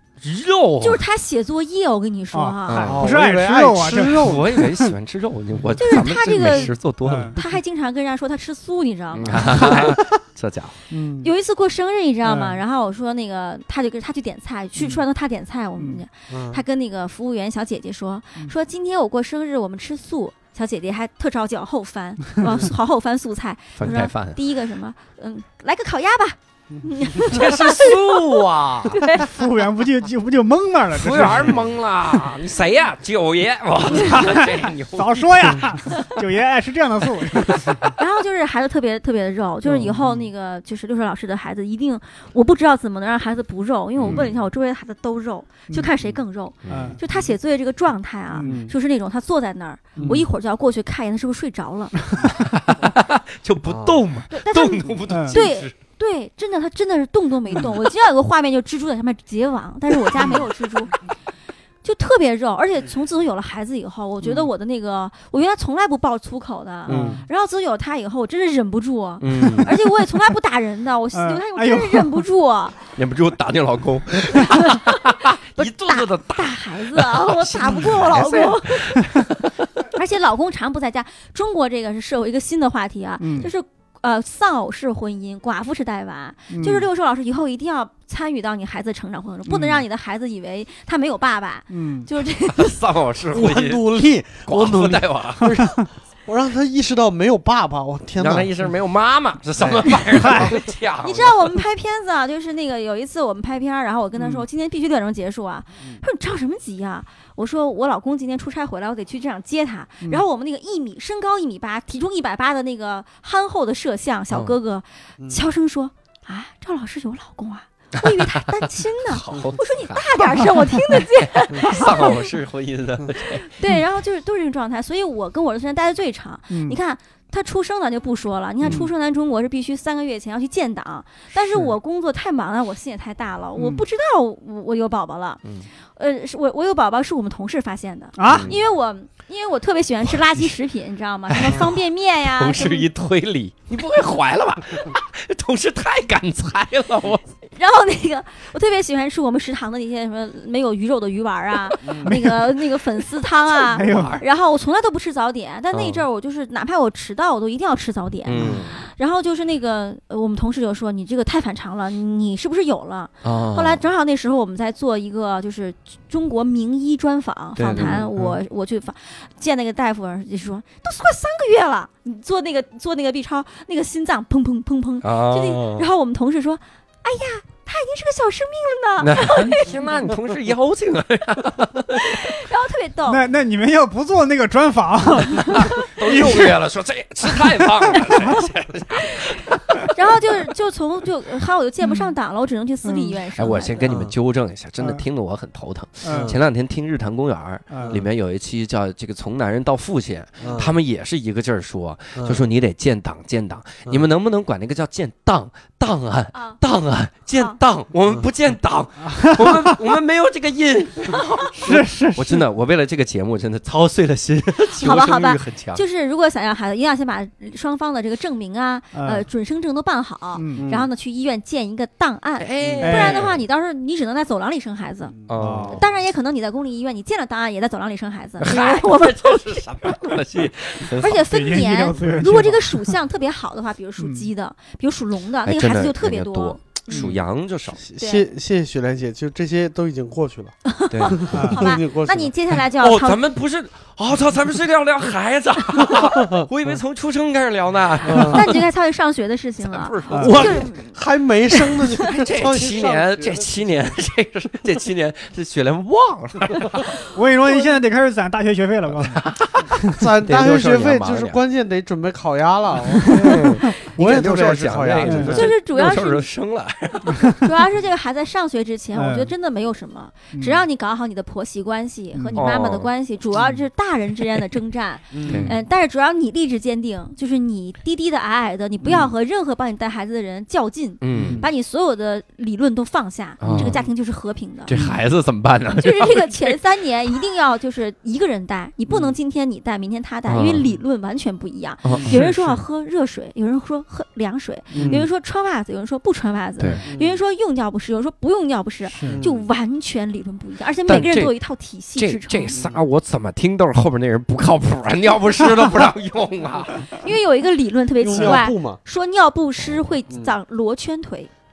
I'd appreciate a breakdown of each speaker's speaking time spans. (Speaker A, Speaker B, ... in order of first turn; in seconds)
Speaker A: 0.2-1.0, 2.7-3.1, 4.2-7.4, 9.1-10.8, 23.8-24.4, 27.2-29.0, 30.9-35.6, 44.0-44.3, 46.6-47.0, 52.3-55.7, 69.2-69.7, 72.9-79.7, 92.5-93.9, 94.4-95.6, 98.2-101.5, 114.3-114.5, 118.0-123.5, 128.6-128.8, 138.2-138.6, 140.1-140.4, 141.3-147.2, 153.8-154.2, 155.7-156.0, 158.2-158.8, 163.2-163.8, 167.6-168.1, 175.0-175.9, 179.0-182.2, 185.5-189.9, 193.3-215.8, 222.4-223.4, 225.3-225.9, 228.4-231.3, 235.4-237.8, 240.9-241.5, 242.7-248.6, 249.6-250.7, 252.0-256.9, 258.9-261.4, 263.1-267.4, 272.3-272.9, 275.2-275.5, 281.0-281.4, 283.4-283.8, 284.7-286.6, 290.3-290.7, 291.8-292.2, 296.6-296.8, 300.8-301.4, 301.9-306.9
Speaker B: 0.8-3.0, 5.8-6.8, 7.3-9.9, 11.2-28.4, 28.9-29.3, 38.0-52.1, 54.3-61.0, 61.8-72.8, 74.3-79.1, 79.8-92.8, 101.0-122.3, 123.4-135.4, 135.9-142.9, 147.5-179.8, 181.9-183.2, 189.9-194.0, 206.3-206.6, 211.1-211.5, 214.7-225.1, 225.7-230.0, 230.8-237.2, 237.9-238.3, 240.6-243.2, 248.2-252.0, 265.3-266.3, 267.4-284.7, 285.8-302.6, 306.9-311.3
Speaker C: 2.3-4.9, 6.4-7.4, 10.9-11.3, 12.2-12.6, 15.8-16.0, 29.2-31.7, 34.0-38.0, 39.6-40.3, 46.7-47.0, 48.3-48.7, 50.0-50.2, 55.1-55.4, 66.9-67.2, 71.1-72.2, 83.2-83.5, 86.5-86.9, 89.5-89.8, 91.7-92.1, 100.1-100.5, 104.2-104.4, 126.5-126.8, 133.6-133.8, 138.2-138.5, 152.0-152.6, 153.6-154.2, 158.4-158.6, 183.1-186.6, 187.6-188.3, 192.8-193.2, 196.0-196.3, 197.7-198.0, 209.1-209.8, 211.6-212.4, 218.9-219.2, 220.3-220.6, 222.8-223.3, 225.4-225.8, 231.2-232.9, 234.0-234.3, 241.3-241.7, 250.1-250.5, 257.1-259.2, 263.0-263.5, 265.0-265.4, 268.9-269.3, 270.3-270.6, 284.7-285.0, 292.1-292.6, 296.6-296.9, 298.9-299.2
Speaker D: 2.8-4.5, 16.3-16.6, 48.4-48.7, 50.0-50.2, 53.7-54.0, 66.9-67.2, 93.3-98.7, 99.6-100.5, 151.8-152.1, 193.8-194.1, 196.1-196.4, 200.4-200.7, 202.1-202.4, 220.6-220.9, 225.2-225.7, 237.8-240.6, 241.1-242.3, 245.9-246.5, 248.0-248.5, 250.2-253.7, 259.9-265.5, 275.1-275.5, 278.8-279.1, 281.1-281.5, 283.5-283.9, 288.9-289.1, 294.7-295.1, 296.8-297.2, 299.0-299.5, 302.5-302.8, 308.0-308.8, 310.1-310.4